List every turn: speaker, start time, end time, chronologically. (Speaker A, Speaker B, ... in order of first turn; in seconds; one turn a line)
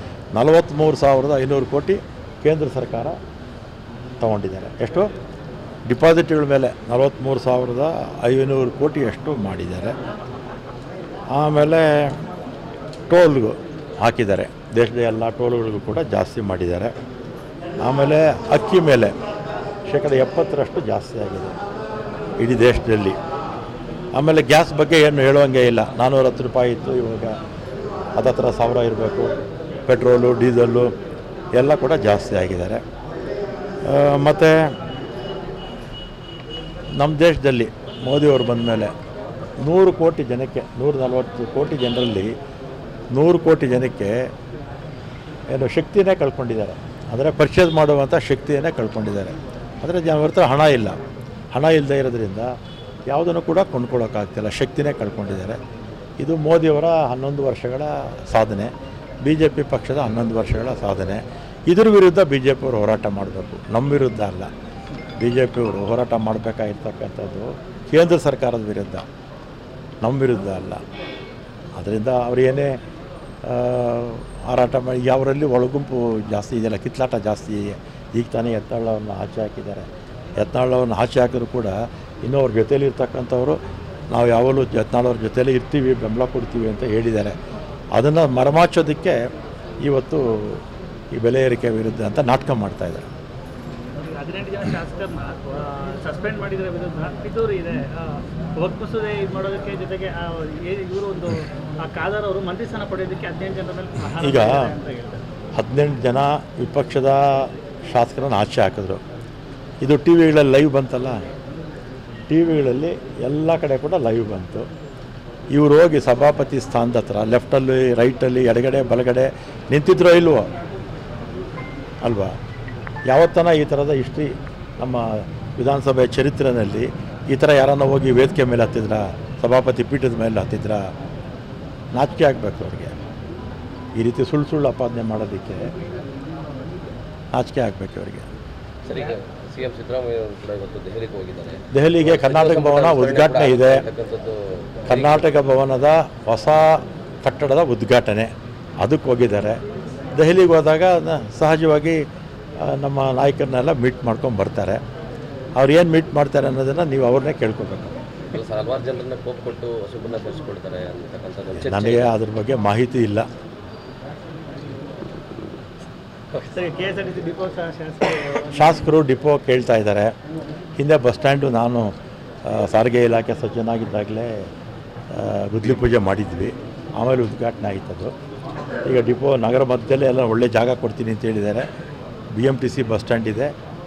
Speaker A: 0.3-3.2
Speaker A: 4.2-5.1
Speaker A: 5.8-9.9
Speaker A: 11.3-12.2
Speaker A: 13.1-16.9
Speaker A: 17.8-19.1
Speaker A: 19.9-21.5
Speaker A: 22.4-23.2
Speaker A: 24.1-27.4
Speaker A: 28.1-29.3
Speaker A: 29.9-30.9
Speaker A: 31.6-32.8
Speaker A: 33.8-34.7
Speaker A: 37.0-38.9
Speaker A: 39.6-42.3
Speaker A: 43.1-44.3
Speaker A: 45.5-51.0
Speaker A: 51.5-52.5
Speaker A: 53.1-55.6
Speaker A: 56.2-58.7
Speaker A: 59.2-64.5
Speaker A: 65.2-69.0
Speaker A: 70.0-70.8
Speaker A: 71.8-72.7
Speaker A: 73.4-79.9
Speaker A: 80.4-83.6
Speaker A: 84.1-87.3
Speaker A: 88.0-89.2
Speaker A: 89.8-90.6
Speaker A: 91.1-93.0
Speaker B: 94.0-105.2
Speaker A: 104.2-104.7
Speaker A: 105.5-109.0
Speaker A: 109.8-111.2
Speaker A: 112.3-114.7
Speaker A: 115.5-120.5
Speaker A: 122.0-122.3
Speaker A: 123.1-130.9
Speaker A: 131.9-133.0
Speaker A: 133.9-135.7
Speaker A: 137.3-138.3
Speaker C: 138.8-145.3
Speaker A: 141.7-143.8
Speaker A: 144.8-149.6
Speaker A: 150.1-152.0
Speaker A: 152.6-154.8
Speaker A: 155.6-157.9
Speaker C: 158.3-162.1
Speaker A: 161.5-163.3
Speaker B: 166.3-168.4
Speaker A: 168.5-170.1
Speaker A: 170.8-171.9
Speaker A: 172.4-174.5
Speaker A: 175.1-178.1
Speaker A: 178.8-181.7
Speaker A: 182.3-183.5